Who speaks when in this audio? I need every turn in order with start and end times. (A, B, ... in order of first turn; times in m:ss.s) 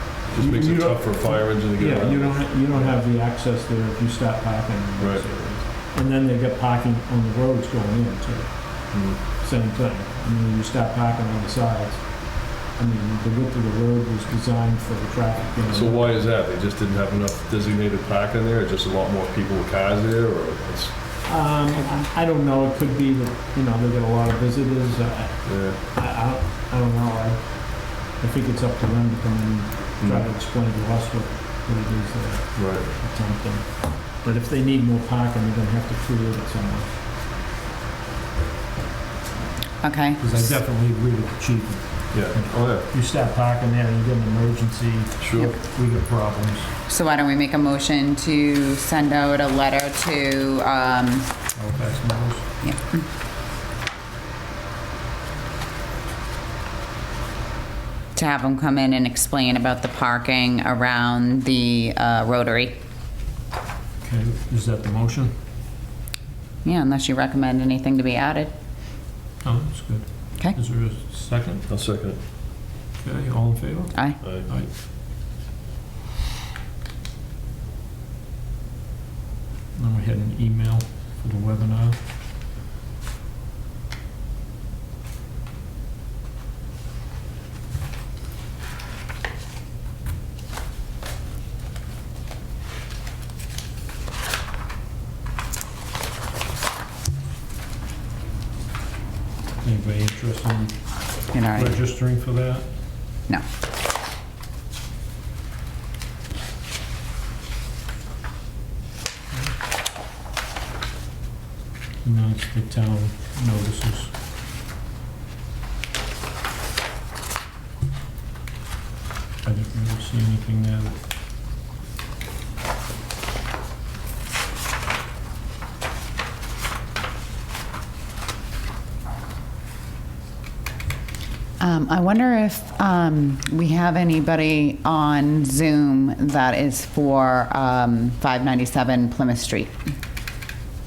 0:00.3-0:03.0 A
0:00.3-0:16.2 B
0:05.0-0:05.3 A
0:08.9-0:09.2 A
0:15.7-0:21.0 A
0:21.2-0:36.9 B
0:21.7-0:22.1 C
0:25.4-0:25.8 A
0:30.0-0:30.3 A
0:32.5-0:32.9 A
0:39.8-0:40.5 C
0:40.2-0:46.7 B
0:42.1-0:42.9 A
0:45.2-0:45.5 A
0:46.9-0:51.3 C
0:51.5-0:52.5 B
0:52.6-0:53.0 C
0:58.1-1:02.8 C
1:04.0-1:05.4 B
1:06.6-1:08.5 C
1:09.4-1:11.6 B
1:11.7-1:12.2 A
1:13.0-1:14.8 B
1:13.9-1:14.2 C
1:14.2-1:14.5 A
1:19.7-1:22.0 B
1:39.6-1:42.7 B
1:41.3-1:41.8 C
1:52.0-1:54.1 B
1:59.4-2:01.0 B
2:11.6-2:19.7 C